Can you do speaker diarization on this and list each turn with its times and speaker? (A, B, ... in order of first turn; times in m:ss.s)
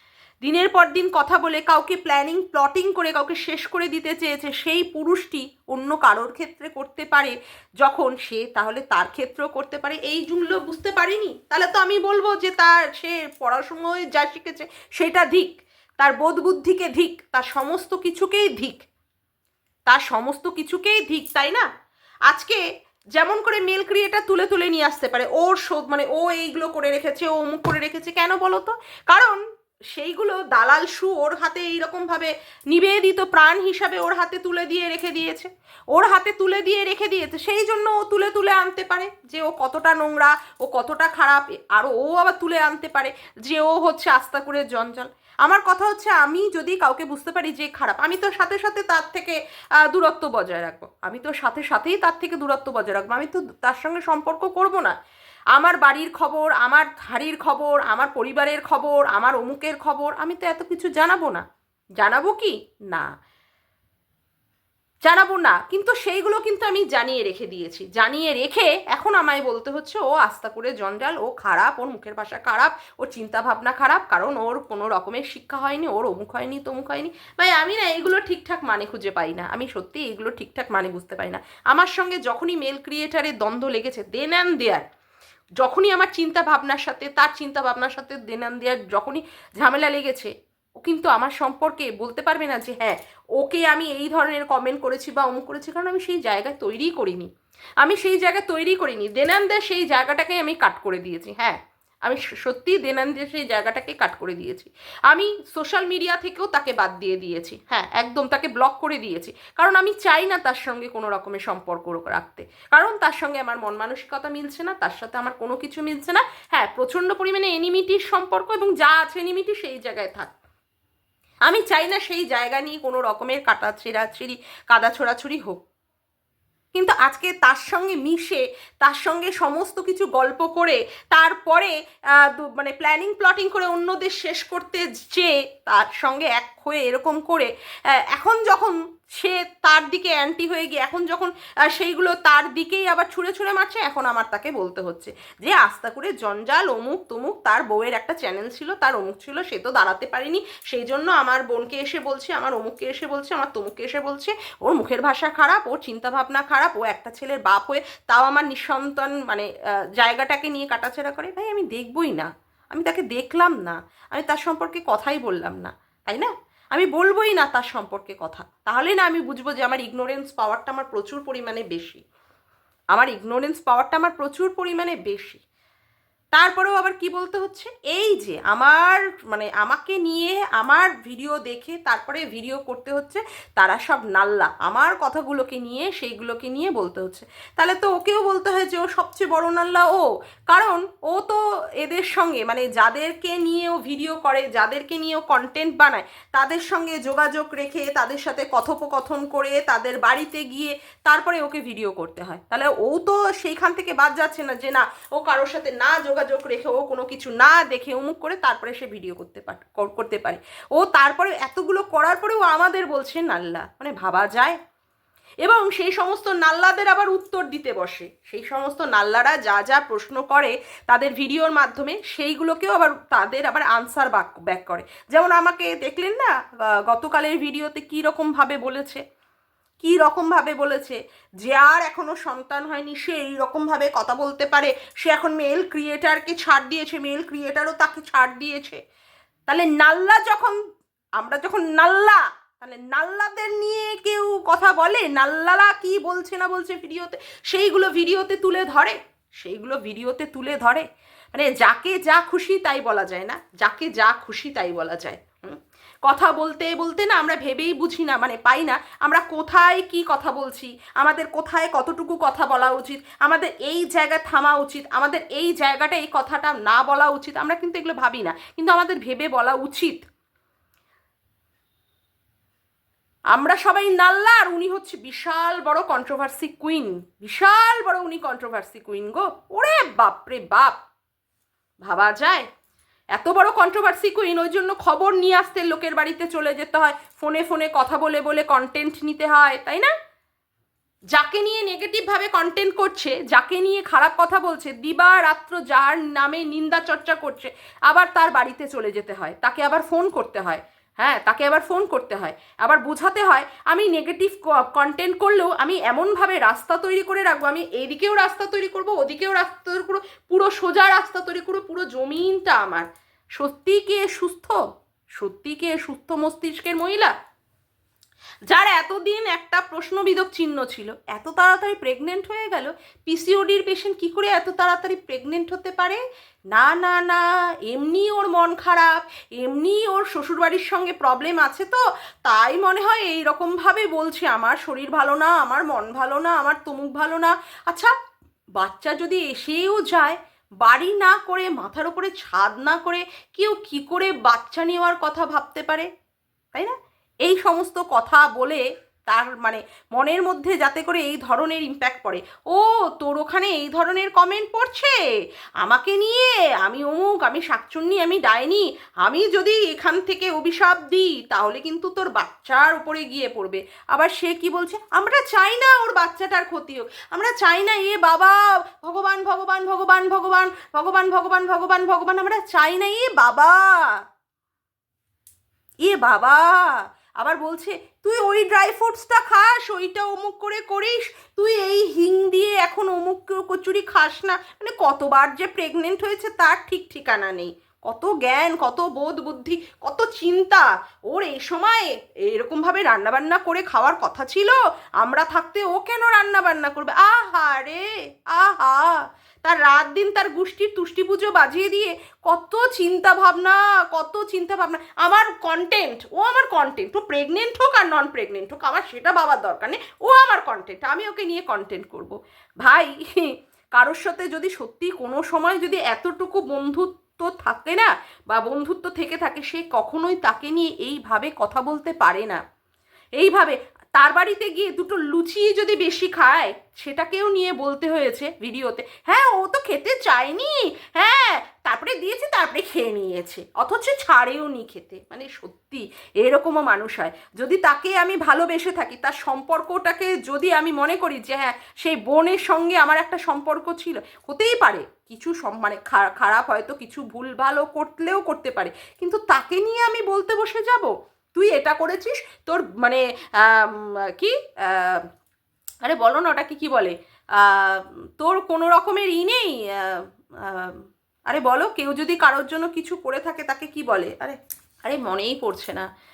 0:00.4-0:18.8 A
0:19.9-0:21.7 A
0:22.3-0:22.6 A
0:23.1-0:29.4 A
0:29.9-0:54.9 A
0:55.5-1:01.4 A
1:02.0-1:03.1 A
1:05.0-1:24.8 A
1:25.6-1:30.3 A
1:30.8-1:37.3 A
1:37.8-2:00.3 A
2:01.5-2:05.6 A
2:06.7-2:52.0 A
2:52.9-2:55.4 A
2:56.3-3:34.6 A
3:35.4-3:49.0 A
3:49.8-3:58.8 A
3:59.5-4:00.6 A
4:01.2-4:30.0 A
4:33.3-4:40.8 A
4:41.8-4:42.4 A
4:43.1-4:49.9 A
4:51.1-5:14.6 A
5:15.2-5:17.1 A
5:18.5-5:26.0 A
5:26.5-5:37.9 A
5:38.6-5:45.9 A
5:46.5-5:54.9 A
5:55.6-6:14.0 A
6:15.8-7:02.4 A
7:03.2-7:35.0 A
7:35.8-7:45.8 A